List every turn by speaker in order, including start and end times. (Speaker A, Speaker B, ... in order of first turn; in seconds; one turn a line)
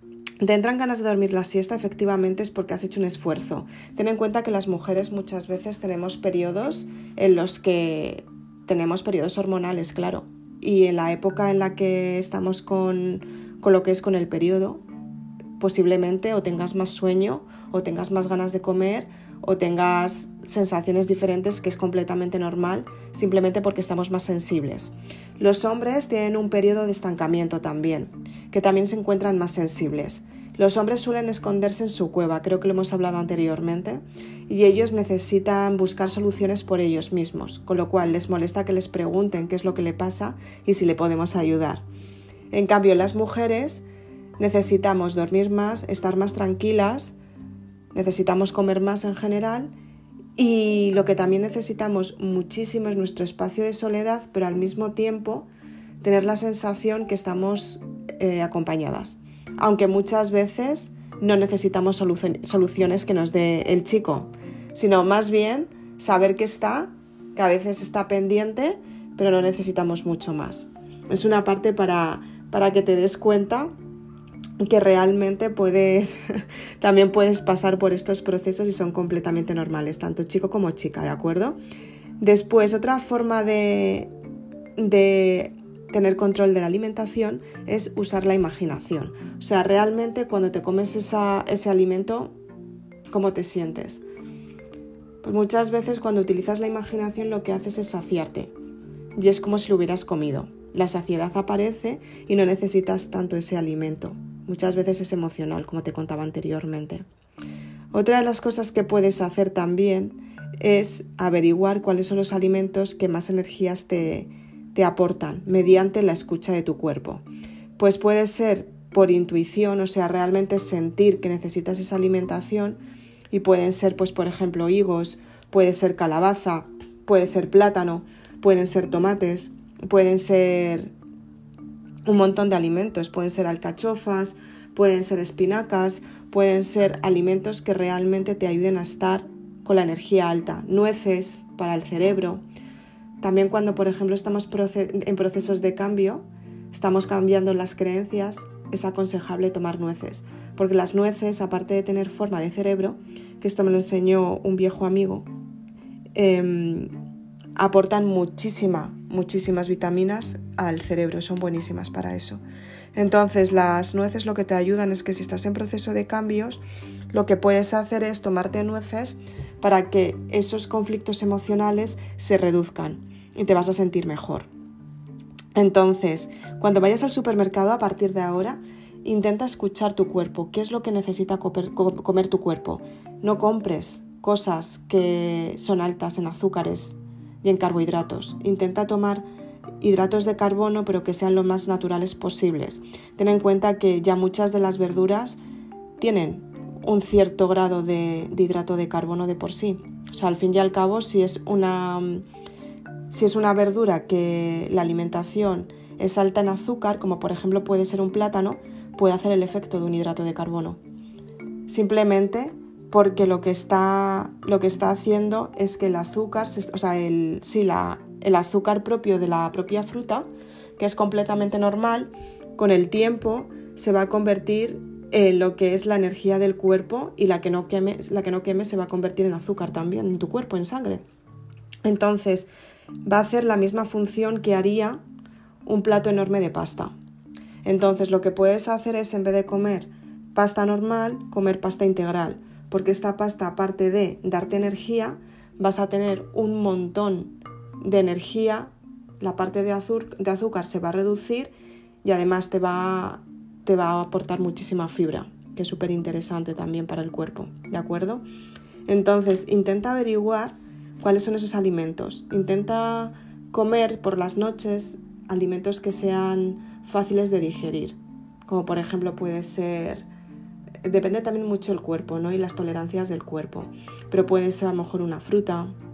Speaker A: 0.4-14.8
Speaker A: 15.6-41.8
Speaker A: 42.5-43.8
Speaker A: 44.4-47.1
Speaker A: 47.9-49.7
Speaker A: 50.4-55.5
Speaker A: 56.0-73.7
Speaker A: 74.6-81.6
Speaker A: 82.2-84.1
Speaker A: 84.8-92.3
Speaker A: 93.1-94.0
Speaker A: 95.2-98.5
Speaker A: 99.2-107.0
Speaker A: 107.9-117.2
Speaker A: 117.8-122.8
Speaker A: 123.3-130.9
Speaker A: 132.1-142.4
Speaker A: 143.2-155.2
Speaker A: 156.1-156.9
Speaker A: 157.6-162.4
Speaker A: 162.9-174.5
Speaker A: 175.6-189.2
Speaker A: 189.8-195.4
Speaker A: 196.0-202.2
Speaker A: 203.1-210.8
Speaker A: 211.7-231.0
Speaker A: 231.8-232.5
Speaker A: 233.1-235.0
Speaker A: 235.7-236.9
Speaker A: 237.7-251.5
Speaker A: 252.0-258.2
Speaker A: 258.9-270.1
Speaker A: 270.8-275.7